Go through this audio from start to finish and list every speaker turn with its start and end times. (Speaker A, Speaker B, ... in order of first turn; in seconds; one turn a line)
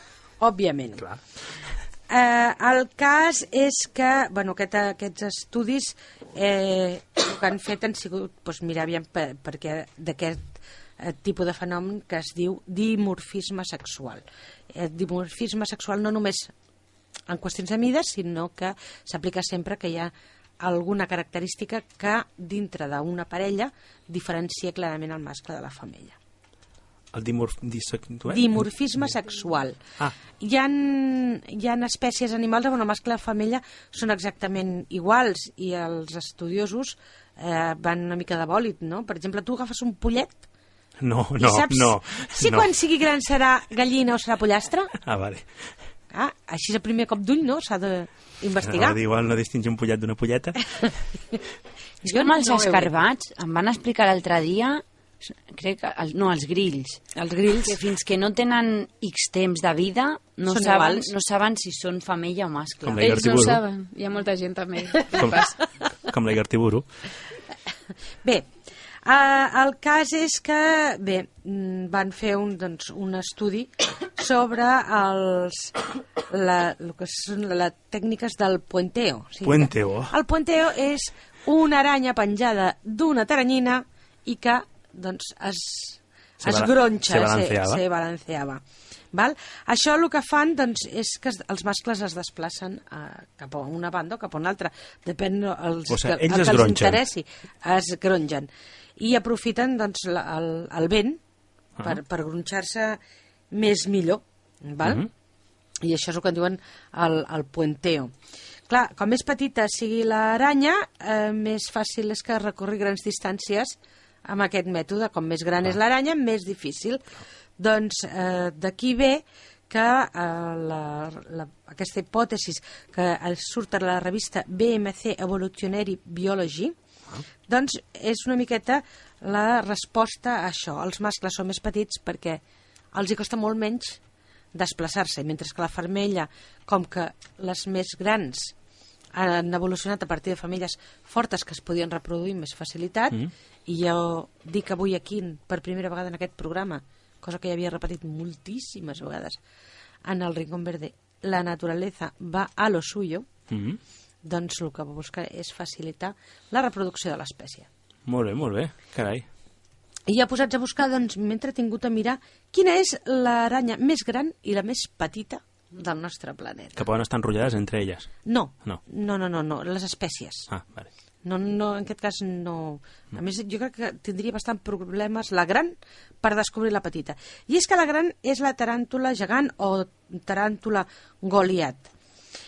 Speaker A: 0.4-1.0
Speaker A: 2.1-16.5
Speaker A: 17.3-26.1
Speaker B: 27.1-28.7
Speaker A: 28.3-40.4
Speaker B: 41.0-42.7
Speaker A: 41.4-44.9
Speaker B: 45.0-45.5
Speaker A: 46.1-49.0
Speaker B: 48.6-50.6
Speaker A: 52.0-52.9
Speaker C: 52.0-57.0
Speaker A: 57.1-57.8
Speaker C: 57.6-63.2
Speaker A: 60.5-61.1
Speaker B: 62.8-63.6
Speaker D: 63.0-65.6
Speaker B: 65.1-65.4
Speaker B: 66.1-66.8
Speaker A: 69.0-75.8
Speaker A: 76.3-101.2
Speaker B: 79.4-80.1
Speaker B: 86.4-87.8
Speaker B: 95.9-97.0
Speaker A: 101.8-103.0
Speaker A: 103.5-105.0
Speaker B: 104.8-105.1
Speaker A: 105.8-108.1
Speaker A: 108.7-117.0
Speaker A: 117.6-126.7
Speaker A: 127.5-132.4
Speaker A: 132.9-134.0
Speaker A: 134.5-138.5
Speaker A: 139.1-149.4
Speaker A: 150.0-153.3
Speaker B: 153.5-153.8
Speaker A: 154.2-157.7
Speaker B: 158.1-159.2
Speaker A: 160.1-166.8
Speaker B: 166.8-168.1
Speaker A: 168.2-170.5
Speaker B: 170.5-170.9
Speaker A: 171.2-181.9